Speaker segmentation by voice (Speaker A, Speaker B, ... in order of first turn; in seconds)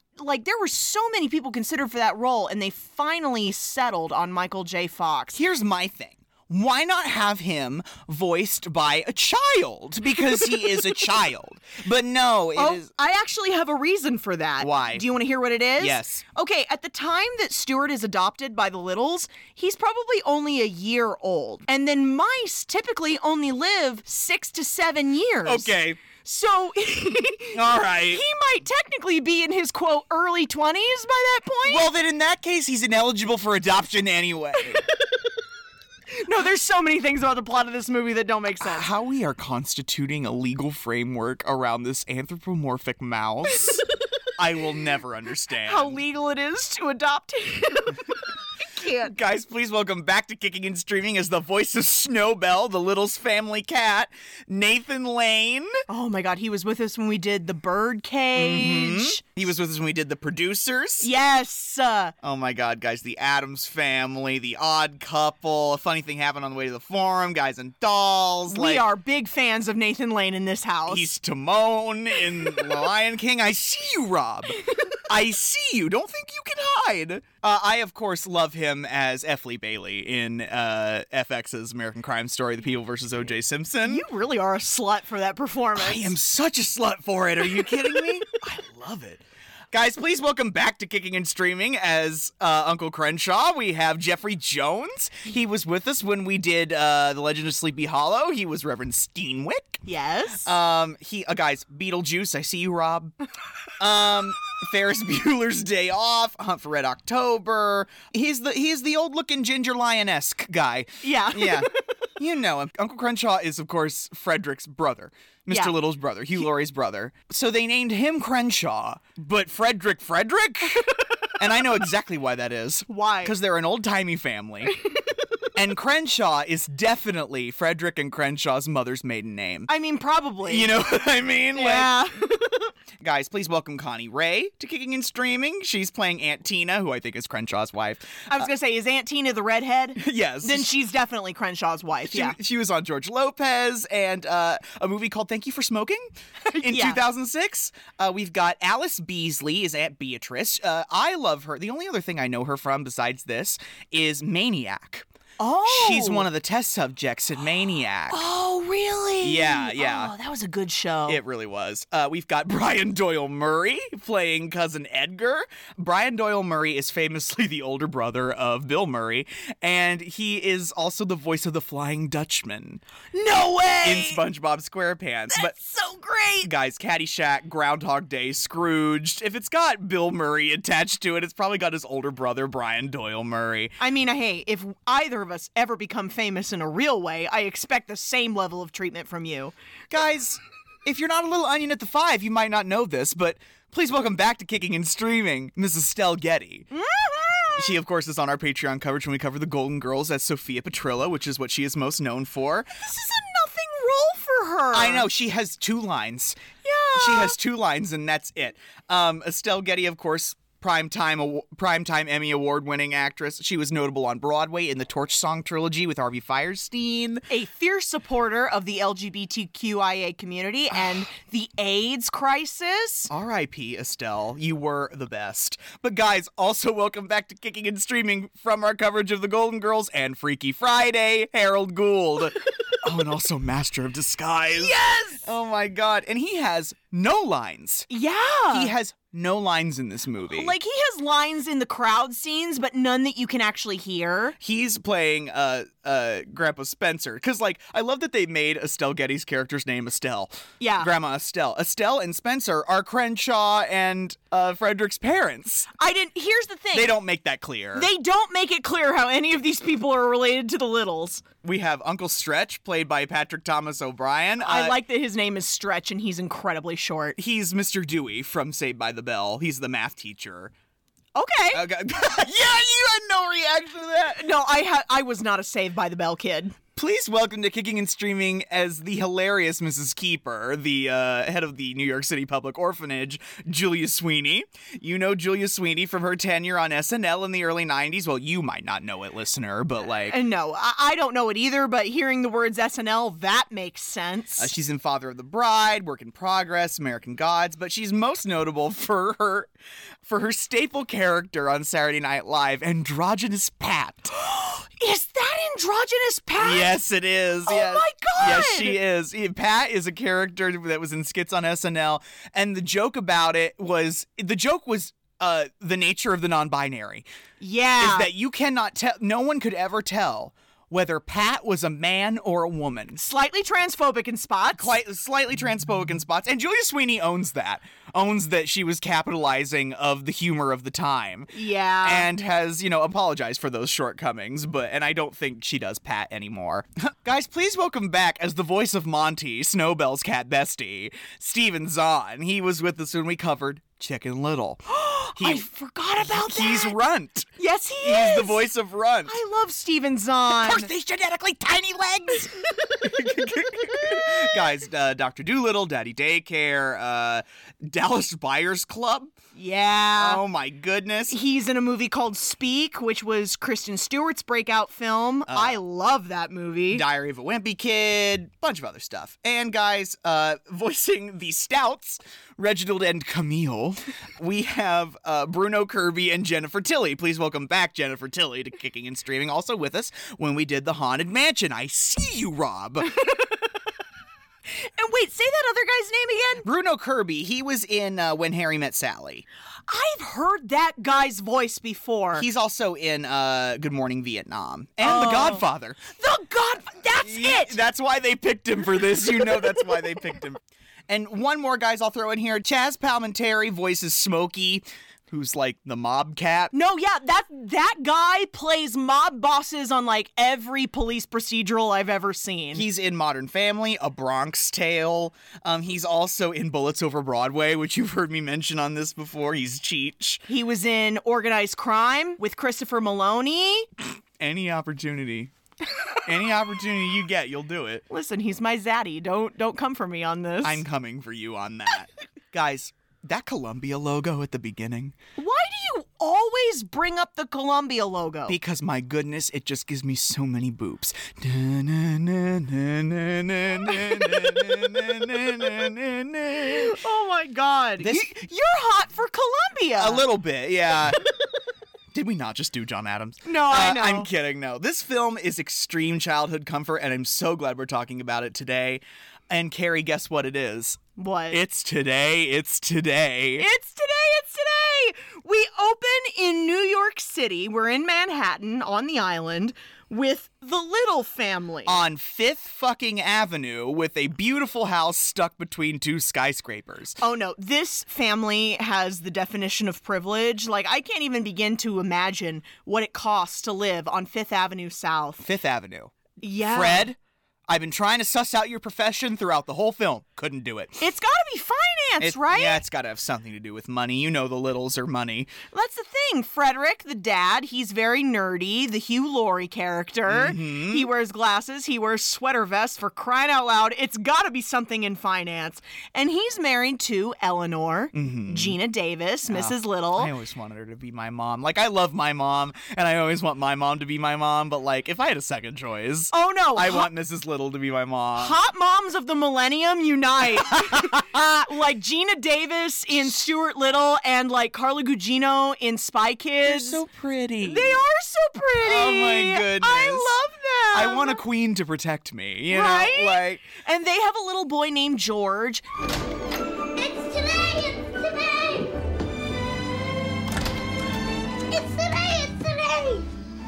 Speaker A: 0.2-5.4, 10.4-10.8, 12.6-31.9, 36.1-38.9, 45.6-48.1, 48.6-49.1, 55.9-59.2, 61.0-62.1, 68.5-71.1, 83.8-86.1, 99.9-100.5, 111.0-111.7, 115.5-115.8, 122.9-123.3, 129.7-130.7, 131.6-132.7, 138.3-142.4, 146.5-147.0, 155.4-156.3, 158.1-161.2, 173.1-174.2, 175.3-176.5, 183.8-189.5, 196.7-197.8, 202.8-205.1, 206.6-207.4, 217.3-223.1, 234.5-235.3, 237.9-238.7, 240.3-244.4, 250.6-250.9, 255.8-257.0, 257.8-261.2, 264.4-267.2, 271.1-271.6, 274.2-276.6, 290.1-294.5, 304.1-306.8, 307.5-308.8, 317.4-318.1, 323.0-324.8, 331.3-332.1, 344.7-346.8, 347.4-348.4, 349.1-350.7, 359.4-360.2, 361.1-366.9, 384.6-386.5, 389.7-392.3, 394.8-397.6, 399.3-399.7, 406.5-412.7, 420.3-423.7, 427.9-430.6, 435.2-438.4, 443.9-444.5, 446.4-450.1, 453.2-454.1, 461.0-461.4, 463.4-471.8, 477.0-485.2, 486.2-486.9, 490.8-492.6, 495.5-510.1, 516.1-516.9, 518.2-526.8, 527.4-531.2, 532.5-535.6
Speaker B: 5.3-12.9, 14.6-15.1, 15.8-16.2, 25.4-26.0, 27.5-28.2, 31.7-34.8, 38.6-43.8, 44.4-46.0, 49.0-55.8, 58.4-61.1, 62.2-68.8, 70.9-84.0, 85.8-99.8, 100.4-103.2, 103.8-120.9, 121.4-124.8, 125.5-129.7, 130.4-131.9, 133.0-138.5, 140.0-140.7, 142.1-155.1, 155.7-158.2, 159.2-160.1, 161.1-172.8, 173.8-175.6, 176.4-183.8, 189.9-196.7, 197.6-202.7, 204.7-206.4, 207.0-217.2, 223.1-237.9, 238.5-240.5, 244.4-255.7, 256.7-257.9, 261.4-264.8, 267.2-270.5, 271.5-274.2, 276.8-290.2, 294.4-299.5, 300.1-304.1, 306.4-317.1, 317.8-323.1, 324.6-344.6, 345.2-345.5, 346.0-349.2, 350.3-359.1, 359.9-361.2, 365.3-365.6, 366.7-382.9, 386.4-389.2, 392.2-395.8, 397.0-406.5, 412.5-420.2, 424.2-425.3, 426.1-427.8, 430.4-434.9, 438.3-446.8, 447.8-448.1, 449.8-451.0, 451.9-463.5, 471.7-477.0, 485.2-487.0, 487.5-490.8, 492.0-495.4, 500.1-500.9, 507.9-508.6, 509.3-518.4, 520.6-521.0, 526.4-527.8, 528.6-530.2, 530.7-533.4
Speaker C: 536.8-538.7, 541.5-543.1